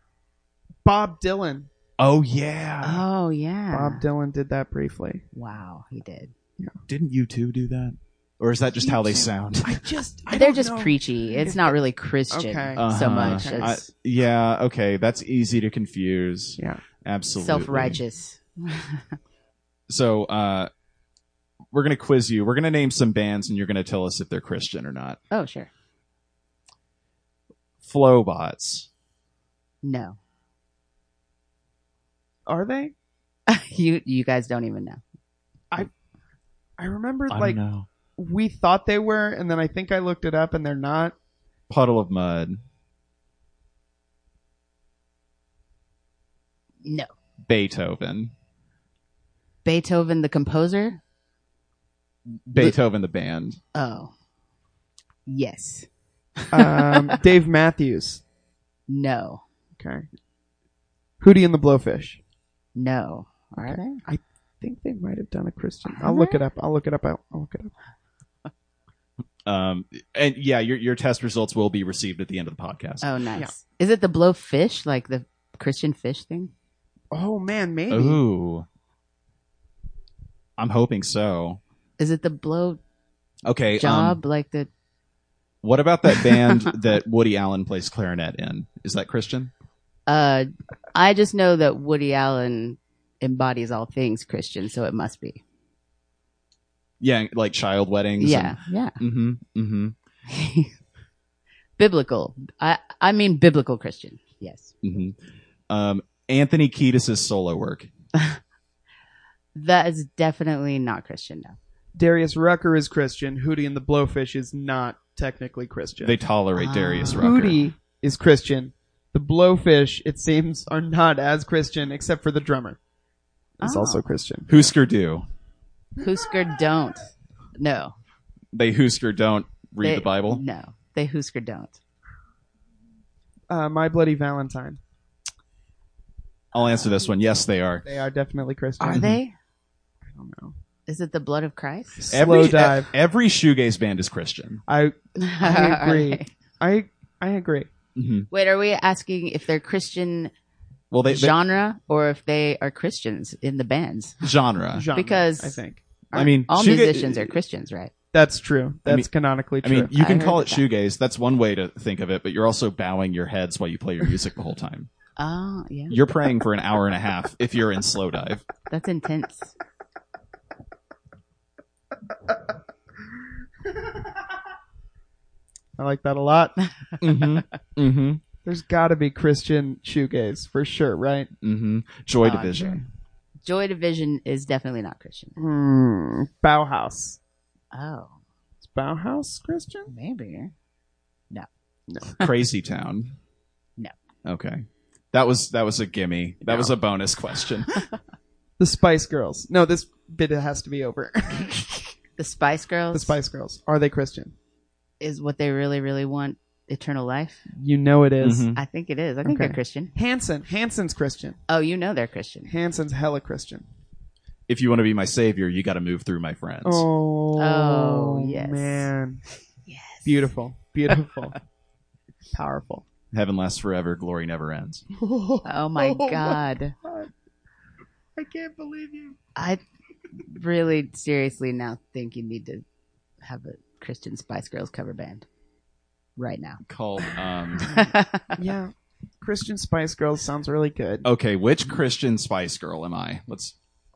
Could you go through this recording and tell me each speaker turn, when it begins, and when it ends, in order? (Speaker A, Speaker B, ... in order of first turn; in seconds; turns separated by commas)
Speaker A: 0.8-1.7, Speaker B: 2.0-3.0, Speaker C: 2.8-4.0, Speaker A: 3.7-5.2, Speaker C: 5.3-6.3, Speaker B: 6.9-9.9, Speaker A: 8.8-11.8, Speaker C: 10.3-13.8, Speaker A: 12.3-13.8, Speaker B: 12.8-18.0, Speaker C: 17.4-19.2, Speaker B: 19.9-20.7, Speaker B: 21.7-25.2, Speaker C: 25.3-25.7, Speaker B: 27.8-28.9, Speaker C: 29.8-30.2, Speaker A: 32.5-33.0, Speaker C: 33.5-35.0, Speaker A: 36.8-37.6, Speaker B: 37.3-37.9, Speaker A: 38.2-41.1, Speaker B: 41.7-42.6, Speaker C: 46.8-47.1, Speaker B: 47.5-48.3, Speaker C: 49.6-51.0, Speaker B: 52.5-53.6, Speaker C: 53.8-54.1, Speaker C: 55.3-55.9, Speaker C: 56.4-57.2, Speaker A: 56.5-58.2, Speaker C: 58.9-59.4, Speaker A: 59.8-60.1, Speaker A: 61.2-62.2, Speaker C: 62.8-64.0, Speaker A: 63.6-67.7, Speaker C: 65.9-66.4, Speaker B: 69.5-73.1, Speaker C: 73.0-76.5, Speaker A: 77.1-78.2, Speaker B: 77.9-78.7, Speaker B: 80.6-81.6, Speaker C: 82.0-82.8, Speaker B: 83.5-84.2, Speaker C: 83.8-84.7, Speaker B: 85.6-89.5, Speaker C: 86.2-86.7, Speaker C: 90.1-95.4, Speaker B: 97.0-100.0, Speaker C: 98.2-99.0, Speaker C: 100.3-100.7, Speaker C: 101.8-104.7, Speaker B: 104.8-105.2, Speaker B: 105.7-107.9, Speaker C: 108.2-108.4, Speaker C: 109.5-111.6, Speaker A: 112.0-116.2, Speaker B: 116.0-117.6, Speaker C: 116.6-117.3, Speaker A: 117.1-122.8, Speaker A: 123.6-124.5, Speaker C: 123.6-124.1, Speaker B: 124.5-125.3, Speaker C: 126.0-127.0, Speaker C: 127.6-127.9, Speaker B: 128.5-130.4, Speaker C: 129.8-131.8, Speaker A: 133.5-134.8, Speaker B: 136.5-137.8, Speaker A: 137.8-139.1, Speaker B: 138.8-139.2, Speaker C: 138.9-139.3, Speaker A: 140.1-140.6, Speaker C: 140.9-142.1, Speaker A: 142.0-142.9, Speaker B: 142.1-144.6, Speaker A: 144.7-147.7, Speaker C: 145.2-146.3, Speaker B: 148.0-148.3, Speaker C: 148.3-150.3, Speaker B: 150.9-151.3, Speaker C: 151.1-154.3, Speaker B: 154.2-154.9, Speaker A: 154.8-155.8, Speaker C: 154.9-157.9, Speaker B: 156.1-157.4, Speaker A: 158.1-159.9, Speaker B: 159.6-164.9, Speaker C: 159.9-160.6, Speaker C: 165.2-165.9, Speaker B: 165.9-168.5, Speaker C: 168.7-169.6, Speaker A: 175.8-176.6, Speaker B: 177.0-178.2, Speaker A: 178.4-181.3, Speaker B: 181.4-182.8, Speaker C: 182.2-182.8, Speaker C: 183.4-185.3, Speaker A: 185.4-187.2, Speaker C: 187.7-188.2, Speaker A: 188.6-189.9, Speaker C: 189.9-190.5, Speaker B: 192.2-193.2, Speaker B: 194.2-197.8, Speaker A: 198.6-201.7, Speaker C: 202.2-203.2, Speaker A: 202.9-204.3, Speaker C: 205.0-207.5, Speaker A: 207.5-208.5, Speaker B: 208.2-208.6, Speaker C: 208.6-209.9, Speaker A: 209.2-211.4, Speaker C: 211.5-212.5, Speaker A: 212.5-213.7, Speaker B: 214.5-216.9, Speaker A: 216.6-219.2, Speaker C: 217.4-218.9, Speaker C: 219.7-220.2, Speaker A: 220.1-221.3, Speaker A: 222.3-222.9, Speaker B: 223.1-224.8, Speaker A: 225.0-227.1, Speaker C: 225.4-226.8, Speaker A: 228.2-229.2, Speaker C: 229.4-229.6, Speaker C: 230.2-232.6, Speaker C: 233.2-235.3, Speaker C: 236.2-236.6, Speaker B: 236.7-237.7, Speaker C: 237.6-238.4, Speaker A: 238.4-241.1, Speaker B: 241.0-243.6